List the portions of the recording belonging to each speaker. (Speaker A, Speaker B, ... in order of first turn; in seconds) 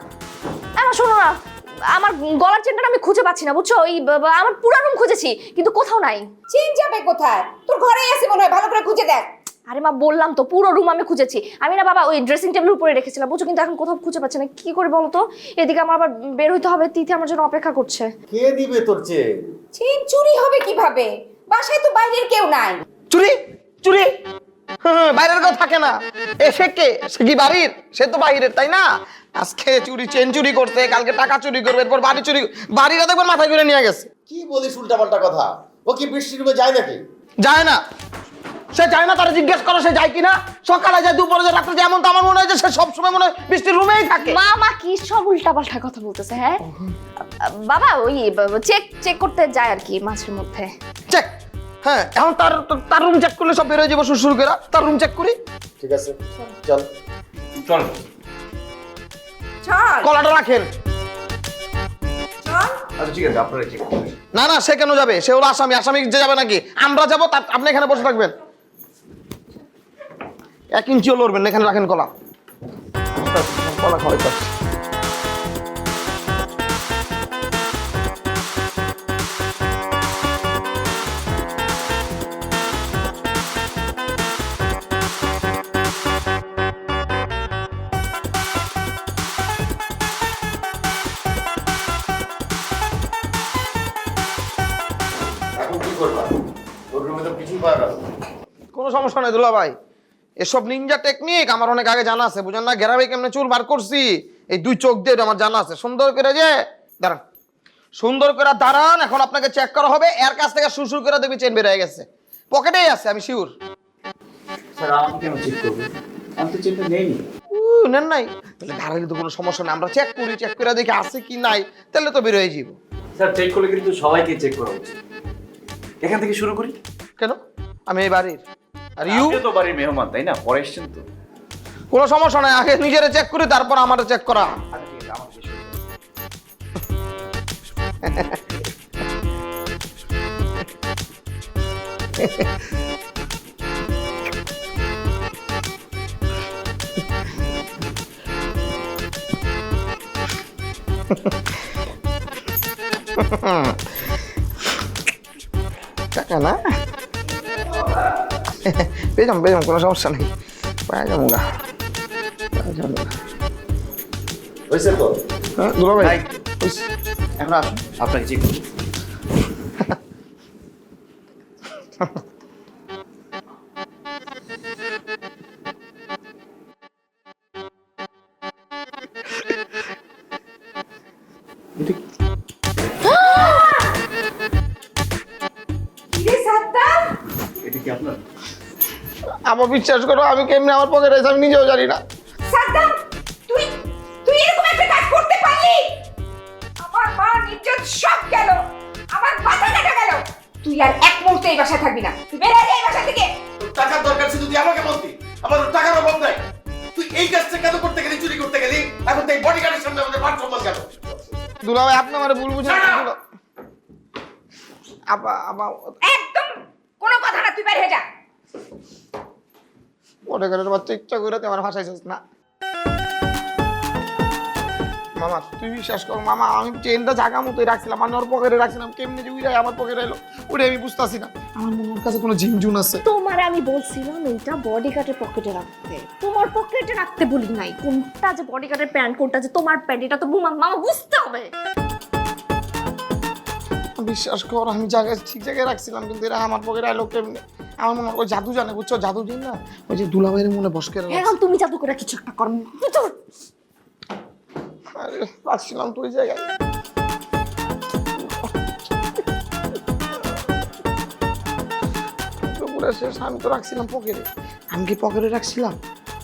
Speaker A: 0.8-1.4, 1.9-6.3, 9.7-18.1, 44.2-46.6, 47.2-50.7, 183.2-183.6, 233.1-241.5, 251.1-253.2
Speaker B: 6.5-9.3, 19.7-22.8, 59.6-60.1, 62.4-62.8, 186.1-187.1, 192.5-192.9, 193.5-193.7, 194.2-195.9, 196.8-198.6, 199.1-203.3, 216.0-218.1
Speaker C: 18.3-19.3, 34.3-37.0, 55.8-56.9, 95.6-96.3, 96.9-98.0, 164.7-165.1, 203.6-206.4, 206.9-211.3
Speaker D: 23.1-24.1, 24.8-28.9, 29.4-34.1, 37.4-37.8, 38.7-44.4, 46.7-46.9, 51.8-55.4, 60.0-60.7, 64.3-68.4, 70.8-72.1, 73.1-74.5, 98.7-99.7, 100.4-107.2, 108.0-113.5, 117.5-122.8, 127.2-128.4, 129.0-129.4, 131.9-134.6, 138.0-138.4, 142.2-142.5, 151.1-151.4, 153.2-153.8, 156.1-156.6, 158.7-160.3, 160.9-161.4, 162.6-163.1, 165.6-166.9, 189.5-192.0, 211.6-213.2, 215.1-216.0, 220.3-222.2, 225.2-233.0, 244.0-251.3, 255.0-256.5, 258.2-258.5, 262.4-265.8
Speaker E: 57.6-57.9, 63.0-64.1, 114.8-117.2, 123.2-125.0, 126.0-126.8, 129.1-131.1, 134.7-135.8, 166.0-166.4, 167.4-168.6, 187.6-188.2